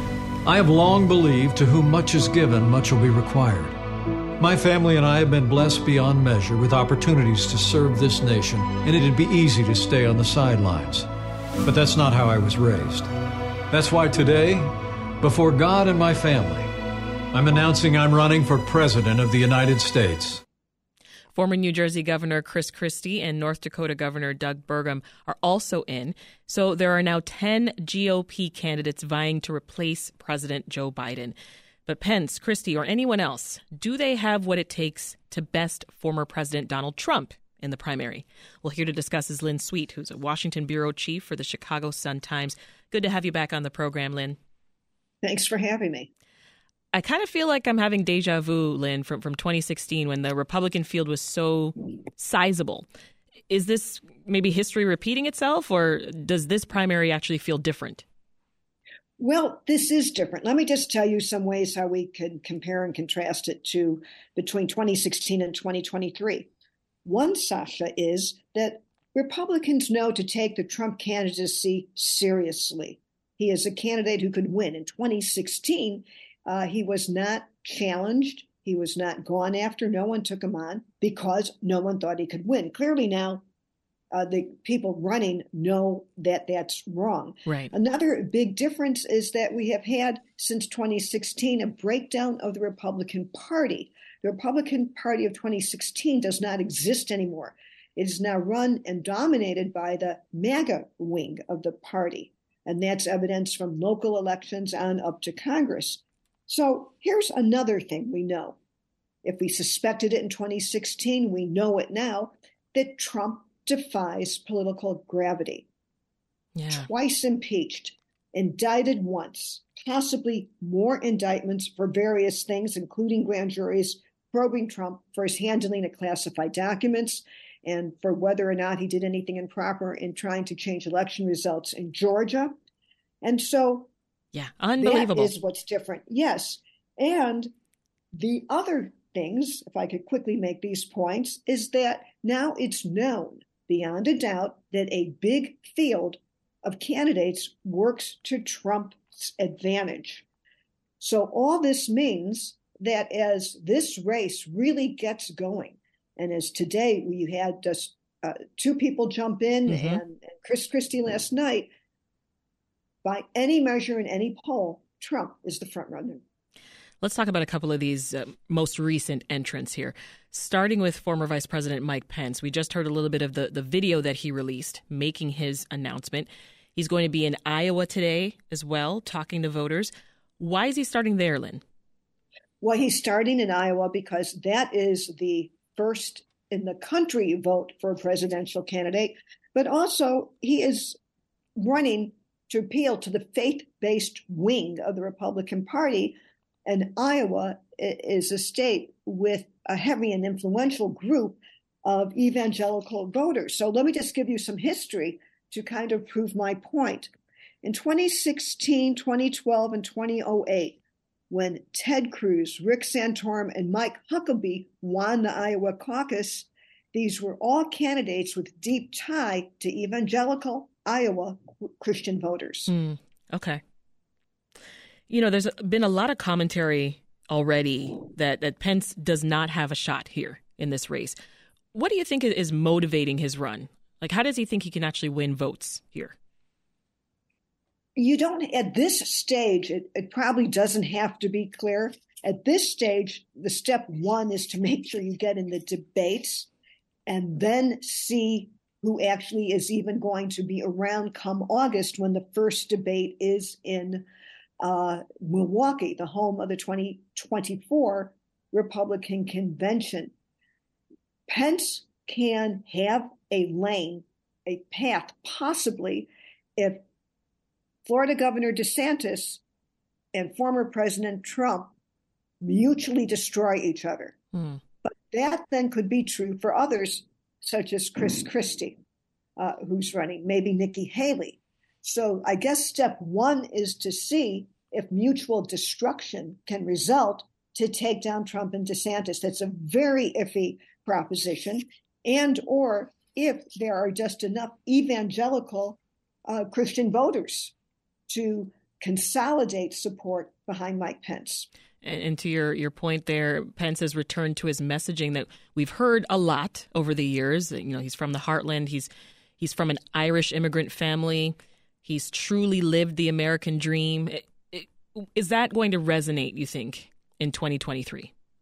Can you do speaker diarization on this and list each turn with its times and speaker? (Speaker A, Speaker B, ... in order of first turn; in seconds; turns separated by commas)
Speaker A: 0.5-3.8, Speaker A: 4.4-11.1, Speaker A: 11.6-13.1, Speaker A: 13.7-16.7, Speaker A: 17.3-20.4, Speaker B: 21.3-31.4, Speaker B: 31.9-44.4, Speaker C: 45.2-46.1, Speaker B: 46.9-52.9, Speaker B: 53.5-58.0, Speaker C: 59.2-66.5, Speaker C: 67.0-83.4, Speaker C: 84.1-108.6, Speaker B: 87.5-87.7, Speaker C: 109.2-115.7, Speaker B: 116.5-116.9, Speaker C: 116.7-132.6, Speaker C: 133.2-133.9, Speaker B: 134.3-135.3, Speaker C: 134.8-137.5, Speaker C: 138.2-150.3, Speaker C: 151.0-161.7, Speaker B: 159.7-160.0, Speaker C: 163.0-166.2, Speaker B: 167.0-181.6, Speaker C: 182.6-191.0, Speaker C: 191.6-196.2, Speaker C: 196.7-207.1, Speaker C: 207.6-222.7, Speaker B: 222.7-223.6, Speaker B: 225.1-231.2, Speaker B: 231.7-236.2, Speaker C: 238.0-246.5, Speaker C: 247.1-254.1, Speaker C: 254.6-260.1, Speaker C: 261.3-266.8, Speaker C: 267.9-269.4, Speaker C: 270.1-271.7, Speaker C: 272.4-274.1, Speaker C: 274.8-278.8, Speaker C: 279.4-297.5, Speaker C: 298.1-301.5, Speaker B: 301.8-318.1